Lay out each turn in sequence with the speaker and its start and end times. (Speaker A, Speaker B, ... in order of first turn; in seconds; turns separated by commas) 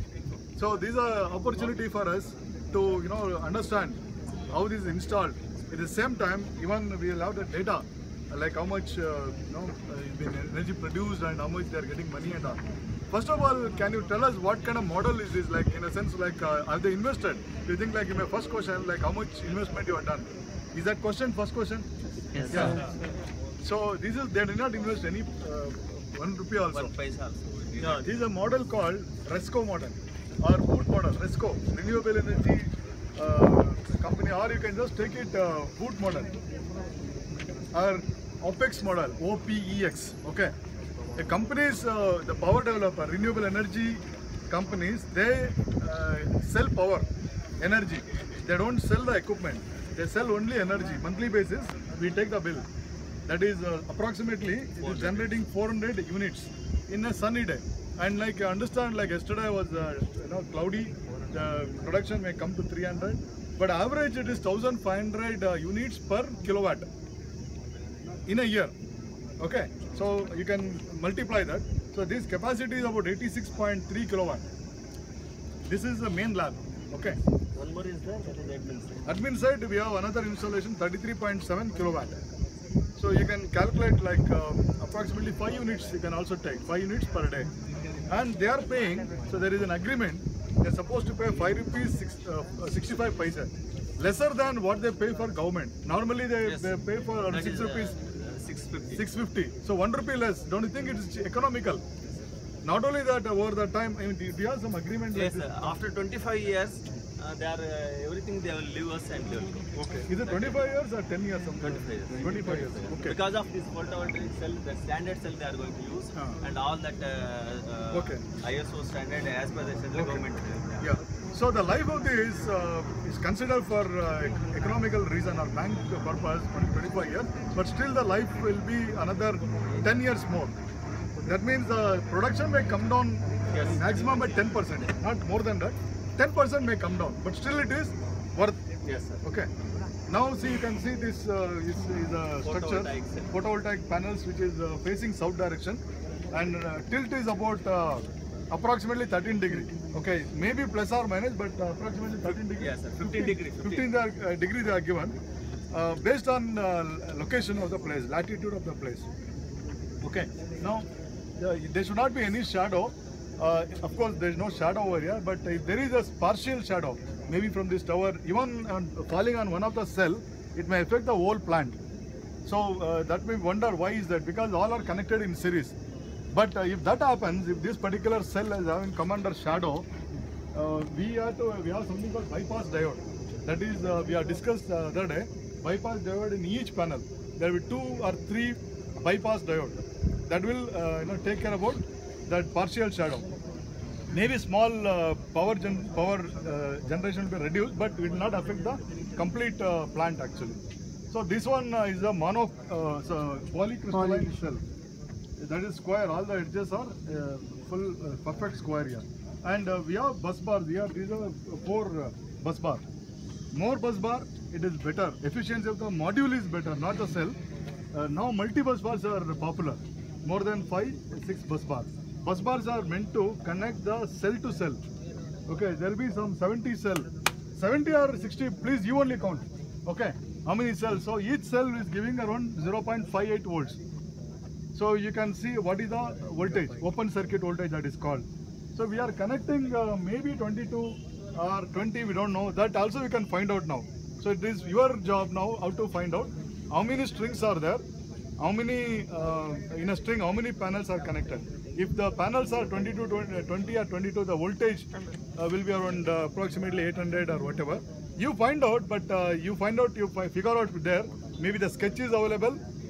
Speaker A: 0.6-4.0, Speaker A: 4.5-12.6, Speaker A: 13.1-21.9, Speaker A: 22.5-22.8, Speaker B: 22.5-22.9, Speaker A: 23.6-26.9, Speaker B: 26.7-28.1, Speaker A: 27.8-36.3, Speaker A: 37.7-40.5, Speaker A: 41.2-47.1, Speaker A: 47.6-52.7, Speaker A: 53.3-66.9, Speaker B: 54.8-55.5, Speaker A: 68.3-68.7, Speaker A: 69.4-74.4, Speaker A: 75.7-77.2, Speaker B: 77.5-79.2, Speaker A: 79.1-82.2, Speaker A: 83.0-87.5, Speaker A: 88.1-97.9, Speaker B: 96.4-99.0, Speaker A: 99.0-101.8, Speaker A: 102.7-105.7, Speaker B: 105.1-110.6, Speaker A: 109.8-113.2, Speaker B: 111.6-121.0, Speaker A: 117.9-118.2, Speaker A: 119.9-120.2, Speaker A: 120.8-130.5, Speaker A: 131.3-138.6, Speaker B: 133.5-134.4, Speaker B: 138.8-139.2, Speaker A: 139.2-139.5, Speaker A: 140.1-145.8, Speaker B: 142.4-143.3, Speaker A: 146.3-155.2, Speaker B: 152.3-153.9, Speaker A: 155.7-159.1, Speaker A: 160.0-160.9, Speaker A: 161.4-171.8, Speaker A: 172.4-175.8, Speaker A: 176.3-179.9, Speaker A: 180.5-193.2, Speaker A: 194.1-200.6, Speaker A: 201.1-204.6, Speaker A: 205.4-212.8, Speaker A: 213.6-217.4, Speaker A: 217.9-224.8, Speaker A: 225.5-233.8, Speaker A: 234.7-247.8, Speaker A: 248.4-262.6